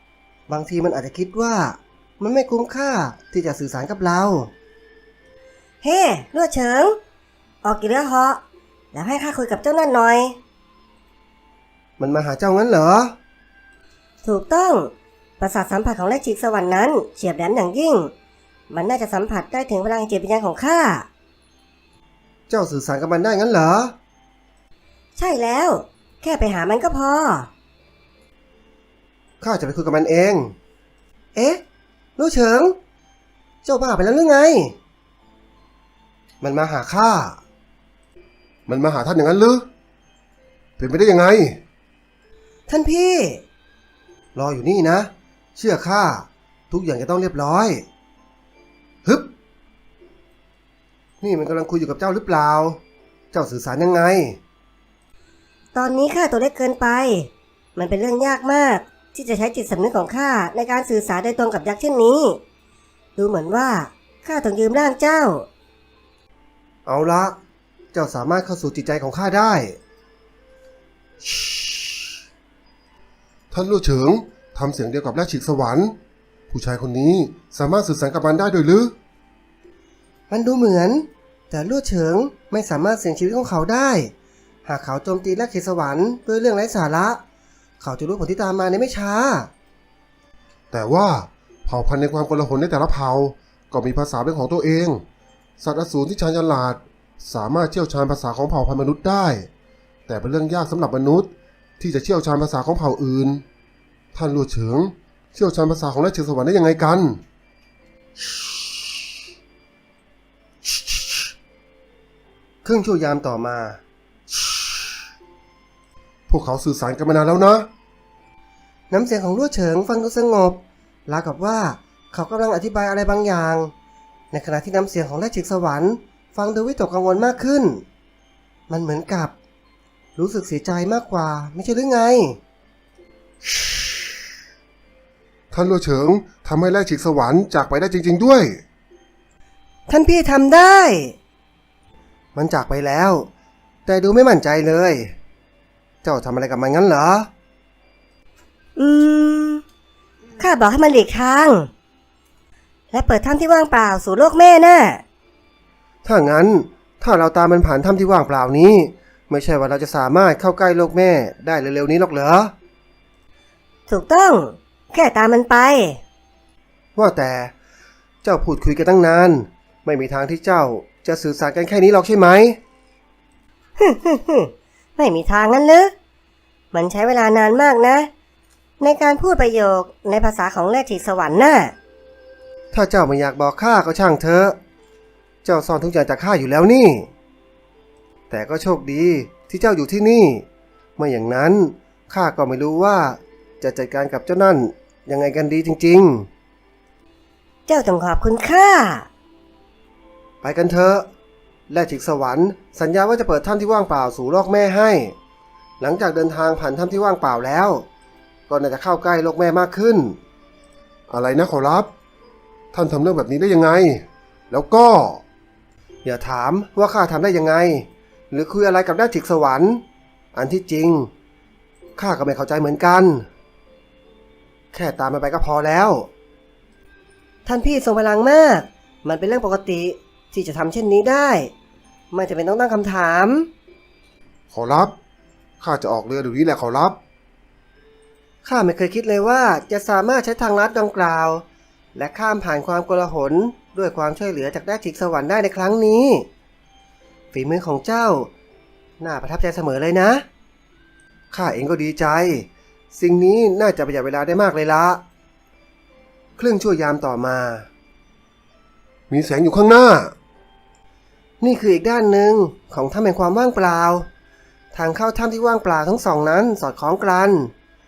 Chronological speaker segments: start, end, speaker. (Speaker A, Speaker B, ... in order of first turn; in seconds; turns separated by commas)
Speaker A: 0.5-4.5, Speaker B: 5.8-7.0, Speaker B: 7.6-8.4, Speaker B: 8.9-10.4, Speaker A: 12.0-13.2, Speaker B: 14.2-18.1, Speaker B: 18.7-21.1, Speaker A: 22.5-23.9, Speaker B: 25.2-27.5, Speaker A: 29.4-30.5, Speaker A: 31.3-31.6, Speaker A: 32.2-32.8, Speaker A: 33.6-34.7, Speaker A: 36.4-37.4, Speaker A: 38.7-39.7, Speaker A: 40.8-41.6, Speaker A: 42.7-43.4, Speaker B: 42.7-43.4, Speaker A: 44.3-47.8, Speaker A: 49.0-49.3, Speaker A: 51.2-52.8, Speaker A: 53.3-54.4, Speaker B: 55.7-62.4, Speaker B: 63.1-65.5, Speaker A: 66.8-67.4, Speaker A: 67.9-69.8, Speaker A: 73.5-76.0, Speaker A: 76.5-78.9, Speaker A: 80.3-84.1, Speaker A: 84.6-87.2, Speaker A: 87.8-89.5, Speaker A: 90.7-95.0, Speaker A: 95.6-99.5, Speaker A: 100.1-103.4, Speaker A: 104.1-107.2, Speaker A: 112.6-113.8, Speaker A: 116.3-117.7, Speaker A: 118.9-123.7, Speaker A: 124.3-127.8, Speaker A: 128.7-129.3, Speaker A: 130.2-132.4, Speaker A: 135.5-138.6, Speaker B: 139.9-141.1, Speaker A: 142.3-143.3, Speaker A: 143.8-145.1, Speaker A: 146.0-147.3, Speaker B: 148.8-149.6, Speaker B: 150.4-151.7, Speaker B: 152.9-155.0, Speaker A: 156.0-162.5, Speaker B: 163.9-166.0, Speaker A: 166.9-167.5, Speaker A: 168.2-172.6, Speaker B: 173.8-175.9, Speaker B: 176.7-178.1, Speaker B: 178.8-181.7, Speaker A: 182.7-184.6, Speaker A: 185.4-187.1, Speaker A: 188.3-190.4, Speaker A: 191.0-196.3, Speaker B: 197.7-199.1, Speaker A: 200.4-201.1, Speaker A: 201.7-205.1, Speaker A: 205.8-207.9, Speaker A: 208.5-210.2, Speaker A: 211.1-211.9, Speaker A: 212.7-215.2, Speaker A: 216.0-219.8, Speaker A: 220.3-221.1, Speaker A: 222.0-223.2, Speaker A: 224.7-226.1, Speaker B: 227.5-228.7, Speaker A: 229.0-231.5, Speaker B: 229.2-229.9, Speaker B: 230.7-231.4, Speaker A: 232.1-233.4, Speaker B: 232.2-233.4, Speaker A: 234.5-234.9, Speaker A: 235.6-237.0, Speaker A: 238.4-246.3, Speaker A: 247.3-248.3, Speaker A: 249.0-250.2, Speaker A: 251.3-255.0, Speaker A: 256.4-257.7, Speaker A: 259.1-260.1, Speaker A: 261.4-264.1, Speaker A: 264.7-267.5